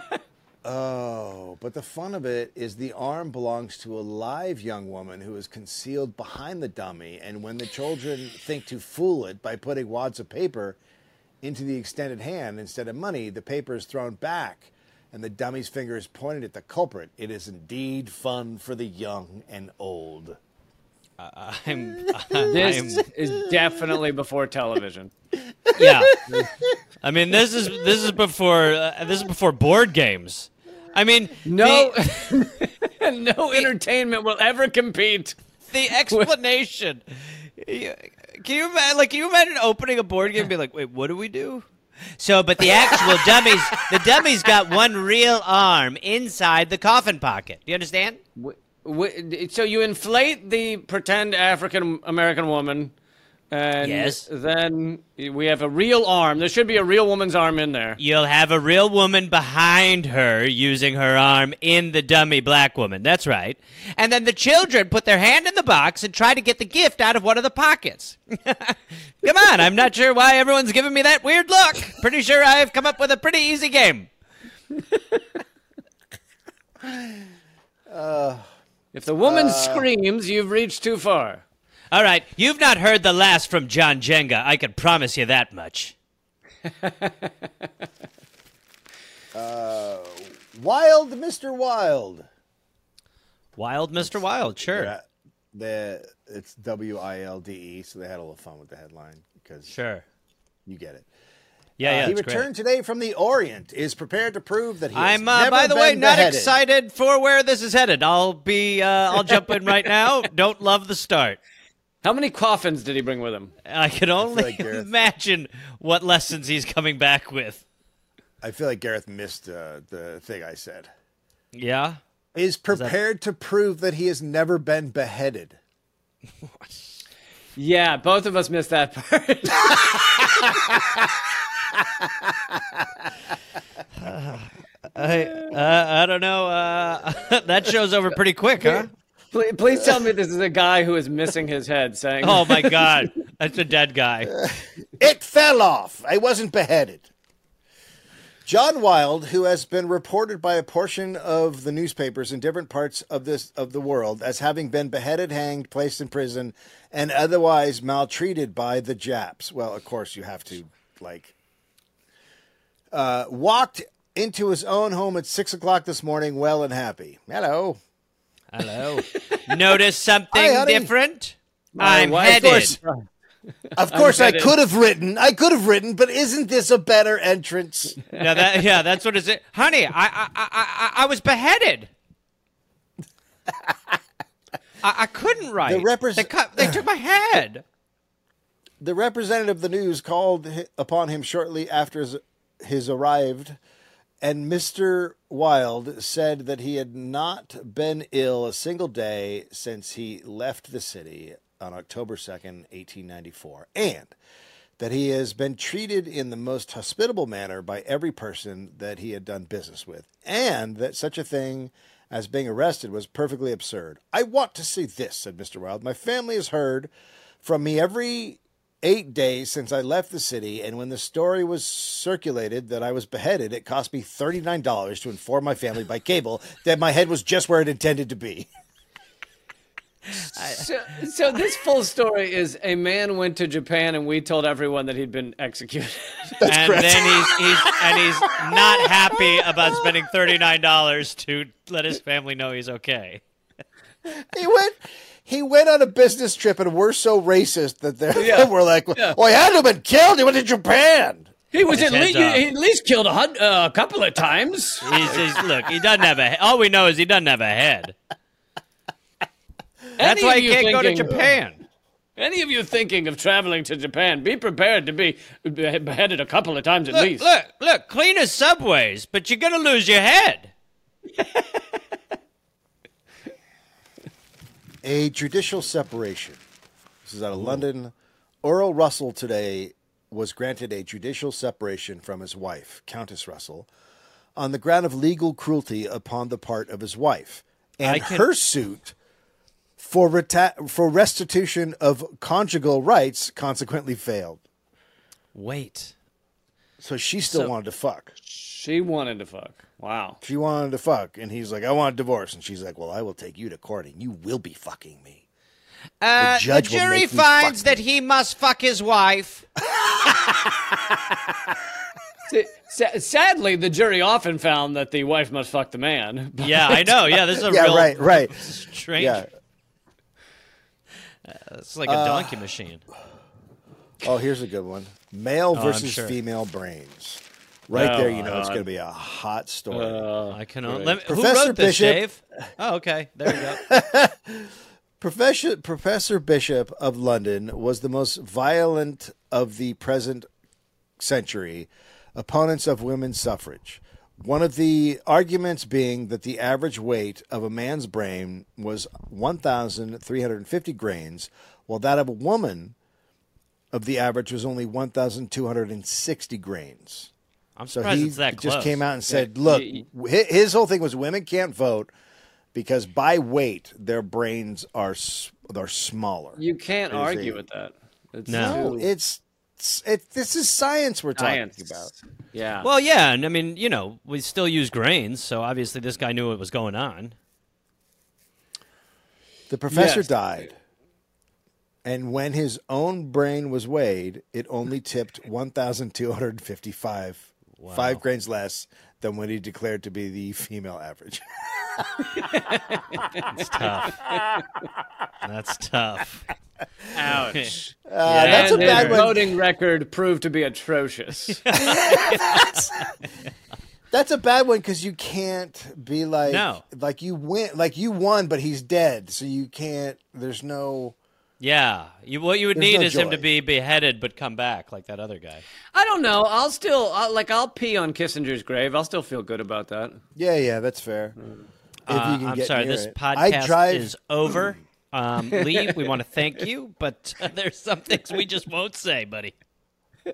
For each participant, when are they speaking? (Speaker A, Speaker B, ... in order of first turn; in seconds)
Speaker A: 0.6-10.8, 11.4-20.4, 25.7-26.4, 76.8-77.3, 77.9-78.5, 79.3-79.9, 89.3-92.3, 94.0-99.7, 100.7-101.1, 101.8-106.5, 114.2-114.9, 118.4-120.9, 122.3-125.6, 132.1-132.8, 144.4-147.1, 148.4-161.3, 162.9-167.8, 170.3-170.9, 173.8-178.0, 185.6-186.8, 188.8-193.6, 194.2-204.2, 204.8-216.9, 217.4-228.5, 236.4-239.9, 244.1-251.3, 274.8-276.4, 277.0-277.9, 278.4-283.7, 284.4-288.9, 289.8-294.4, 296.8-298.1, 300.2-305.2, 306.2-307.8, 309.7-311.1, 317.3-319.3, 321.9-322.4, 324.0-330.1, 330.7-332.0, 333.3-340.3, 341.0-352.7, 353.7-357.1, 357.7-361.9, 362.5-366.4, 366.9-367.4, 368.3-371.9, 379.5-380.6, 381.8-392.2, 397.9-399.3, 401.5-402.9, 403.9-410.9, 412.5-413.3, 420.2-421.2, 421.9-423.9
Speaker B: 21.2-23.1, 25.7-26.2, 27.0-32.3, 35.7-37.0, 37.5-41.6, 42.2-48.2, 53.8-54.2, 58.0-74.1, 81.9-85.9, 93.5-94.9, 99.7-100.0, 101.8-102.5, 104.9-111.4, 113.6-117.6, 121.5-122.0, 134.0-138.9, 142.2-144.4, 168.5-172.8, 178.2-181.9, 184.8-187.6, 236.4-243.2, 251.7-252.4, 254.8-257.9, 260.0-261.6, 266.9-270.5, 287.8-288.3, 295.3-295.9, 306.0-309.4, 316.4-319.2, 321.2-322.8, 325.5-326.1, 330.3-333.6, 357.6-358.8, 368.3-368.6, 372.6-377.1, 387.6-388.0, 393.3-394.1, 395.2-396.3, 397.2-399.1, 401.4-402.9, 406.3-406.6, 411.4-415.4, 421.9-429.3
Speaker C: 22.5-25.1, 31.4-35.4, 42.6-43.8, 48.4-52.9, 53.5-58.0, 78.9-81.4, 86.6-87.3, 112.0-113.5, 127.5-130.6, 139.3-142.9, 169.1-169.6, 171.8-173.1, 173.8-174.6, 178.1-178.4, 230.3-236.3, 248.1-249.2, 251.5-255.4, 260.0-261.2, 262.2-267.3, 298.2-300.2, 312.3-316.9, 327.7-328.6, 329.7-330.9, 359.1-359.8, 366.4-368.9, 371.2-372.7, 379.7-380.1, 392.1-393.4, 394.1-394.4, 396.9-401.4, 415.7-420.0, 425.4-425.7